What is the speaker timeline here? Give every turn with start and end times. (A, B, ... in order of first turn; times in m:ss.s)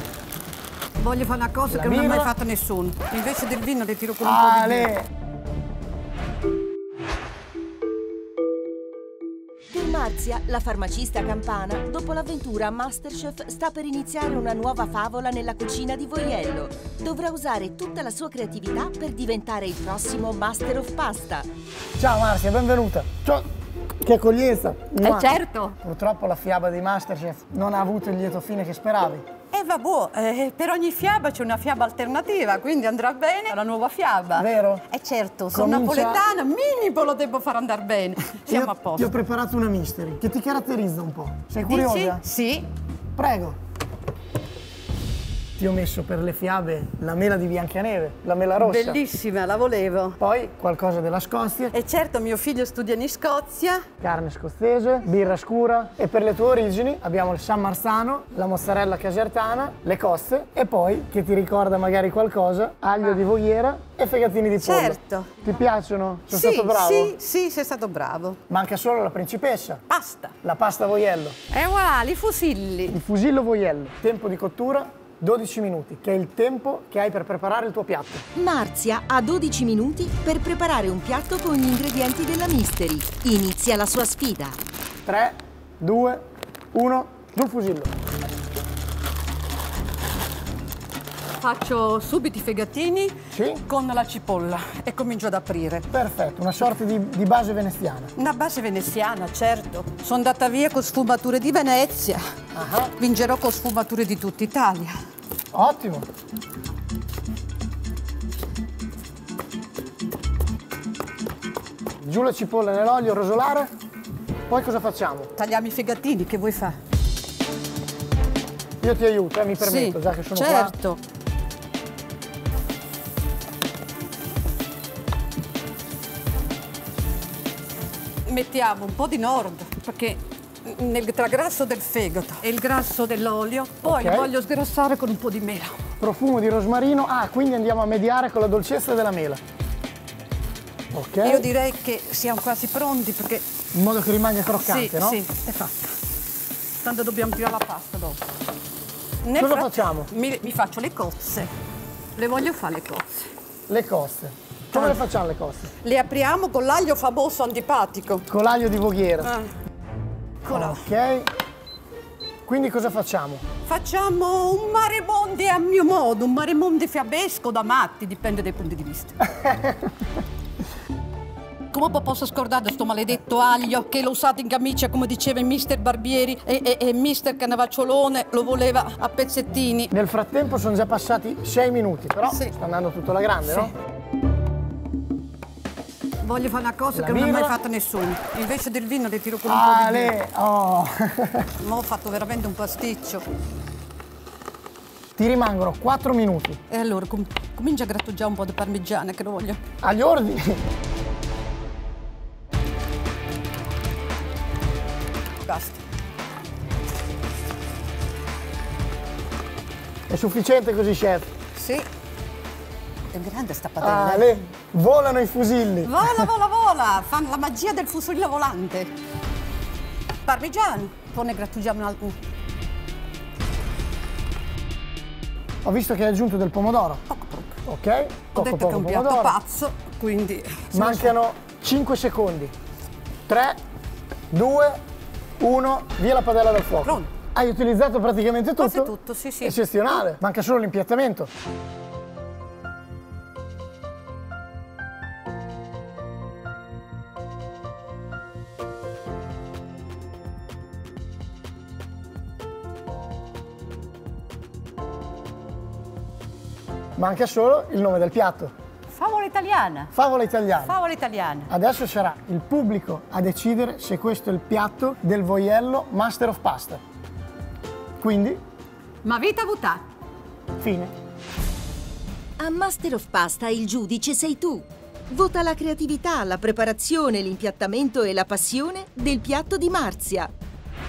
0:01.0-0:04.9 A
0:01.7-0:02.3 B
0:04.2-0:05.1 B
0:09.7-0:21.5 C
0:22.0-0:23.5 B
0:24.0-0:29.2 B
0:25.0-0:25.8 A
0:29.5-0:39.1 A
0:34.4-0:34.8 B
0:35.5-0:36.2 B
0:38.3-0:42.2 B
0:41.7-0:42.7 A
0:43.2-0:43.6 B
0:45.6-0:49.0 B
0:48.6-0:50.2 A
0:50.2-0:51.7 B
0:51.7-0:53.9 A
0:54.0-1:07.2 B
1:04.6-1:05.4 A
1:06.3-1:08.4 A
1:08.5-1:09.8 B
1:09.9-1:10.4 A
1:10.4-1:11.4 B
1:11.5-1:13.0 A
1:12.9-1:18.2 B
1:18.4-1:24.6 C
1:25.0-1:27.9 B
1:31.4-1:35.9 A
1:33.3-1:33.6 B
1:35.9-1:38.1 B
1:38.2-1:42.2 A
1:42.5-1:42.9 B
1:43.0-1:44.9 A
1:45.5-1:46.1 B
1:52.0-1:53.7 B
1:54.5-1:55.3 B
1:55.4-1:56.8 A
1:58.8-2:00.8 B
1:59.6-2:01.0 A
2:08.3-2:15.8 A
2:13.8-2:14.3 B
2:16.0-2:19.4 B
2:20.9-2:21.5 B
2:21.2-2:23.4 A
2:23.7-2:25.2 B
2:24.6-2:25.9 A
2:26.8-2:28.2 A
2:29.2-2:31.5 A
2:29.4-2:30.1 B
2:32.2-2:33.3 A
2:33.7-2:35.7 B
2:34.7-2:35.1 A
2:35.8-2:38.3 A
2:38.3-2:39.3 B
2:39.2-2:39.5 A
2:40.4-2:40.9 A
2:40.5-2:41.3 B
2:42.5-2:43.4 B
2:43.7-2:49.2 A
2:49.4-2:49.8 B
2:51.7-2:59.9 A
2:59.9-3:03.7 B
3:06.2-3:10.1 A
3:06.9-3:07.6 B
3:09.5-3:11.5 B
3:11.6-3:13.2 A
3:15.2-3:16.6 B
3:16.7-3:19.6 A
3:19.8-3:20.6 B
3:25.4-3:25.8 A
3:30.1-3:31.3 B
3:31.6-3:31.9 A
3:33.1-3:34.3 A
3:33.8-3:36.3 B
3:35.8-3:38.9 A
3:40.2-3:42.2 A
3:45.6-3:47.0 B
3:47.1-3:47.6 A
3:47.7-3:49.4 B
3:48.3-3:51.1 A
3:50.7-3:52.5 B
3:53.3-3:53.6 B
3:54.3-3:54.8 B
3:55.4-4:01.3 B
3:56.8-3:57.1 A
3:58.6-3:59.6 A
4:17.0-4:18.5 B
4:18.9-4:19.9 A
4:19.9-4:20.7 B
4:20.6-4:21.5 A
4:21.5-4:26.8 B
4:28.0-4:28.4 B
4:29.0-4:29.8 A
4:30.6-4:30.9 B
4:32.4-4:40.3 C